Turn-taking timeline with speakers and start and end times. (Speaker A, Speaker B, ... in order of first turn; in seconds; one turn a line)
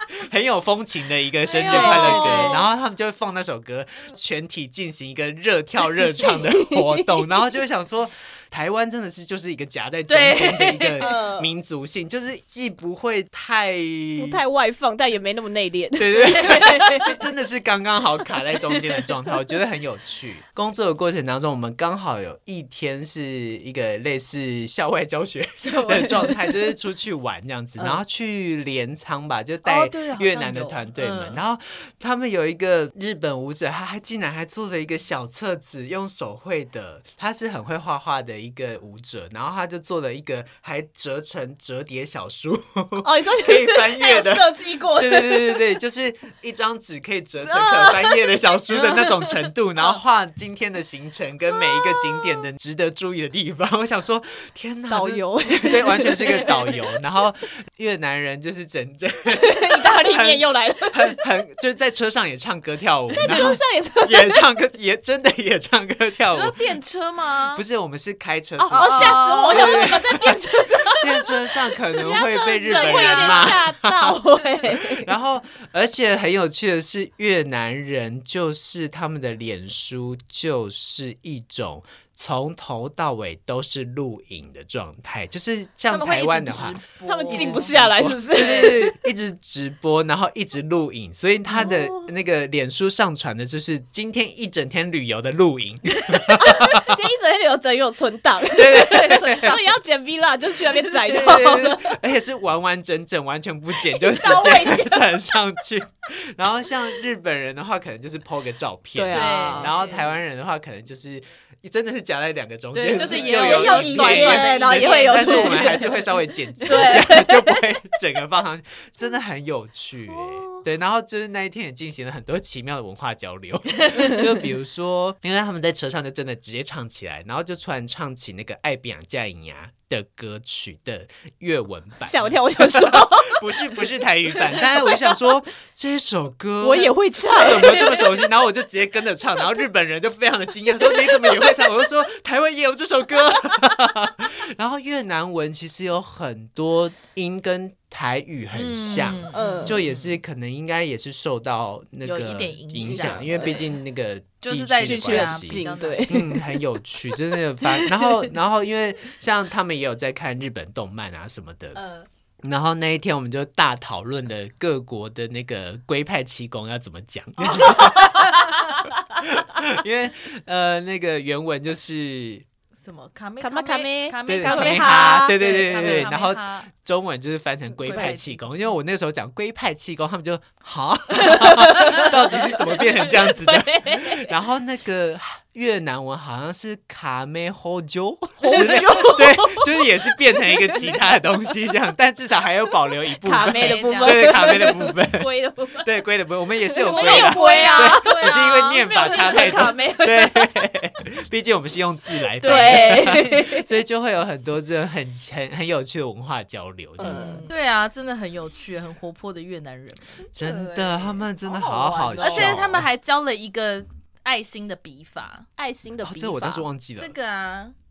Speaker A: 0.3-14.4
Speaker B: 1.4-2.7
Speaker C: 1.7-2.7
Speaker B: 6.2-7.5
Speaker C: 10.1-11.2
Speaker B: 11.0-11.5
Speaker B: 14.2-17.1
Speaker A: 16.0-66.8
Speaker C: 16.2-17.1
Speaker C: 25.6-26.7
Speaker C: 29.6-31.4
Speaker B: 43.0-45.7
Speaker B: 47.4-49.0
Speaker B: 54.9-56.8
Speaker B: 59.3-61.2
Speaker B: 63.1-64.5
Speaker C: 66.3-67.6
Speaker A: 67.5-97.0
Speaker B: 68.6-71.3
Speaker C: 68.7-70.3
Speaker B: 71.8-75.1
Speaker C: 72.7-73.6
Speaker C: 85.9-87.8
Speaker B: 87.0-89.1
Speaker C: 88.3-88.8
Speaker B: 91.5-92.1
Speaker B: 96.1-102.0
Speaker A: 98.5-99.6
Speaker A: 101.0-161.9
Speaker B: 103.8-105.2
Speaker B: 109.0-110.0
Speaker C: 109.1-110.1
Speaker C: 112.8-116.0
Speaker B: 112.9-116.0
Speaker B: 116.6-117.6
Speaker C: 116.7-117.0
Speaker B: 120.1-120.6
Speaker B: 123.9-124.3
Speaker B: 132.0-135.3
Speaker B: 136.6-138.3
Speaker B: 140.8-141.7
Speaker C: 148.5-150.2
Speaker B: 149.3-149.8
Speaker C: 152.0-153.7
Speaker B: 152.8-153.7
Speaker C: 154.4-156.3
Speaker B: 154.8-158.3
Speaker B: 161.8-162.1
Speaker A: 162.4-172.4
Speaker B: 167.4-168.3
Speaker C: 172.8-176.7
Speaker B: 173.4-176.2
Speaker A: 174.3-207.5
Speaker C: 177.8-178.7
Speaker B: 181.2-184.3
Speaker B: 188.4-191.0
Speaker B: 193.1-195.9
Speaker C: 193.5-194.7
Speaker B: 196.7-200.7
Speaker C: 196.8-199.8
Speaker C: 202.4-203.5
Speaker B: 202.4-203.7
Speaker B: 207.0-207.5
Speaker C: 207.0-210.2
Speaker B: 210.2-212.6
Speaker A: 210.3-212.9
Speaker C: 212.2-215.5
Speaker B: 215.6-216.7
Speaker A: 216.0-217.1
Speaker C: 217.0-217.8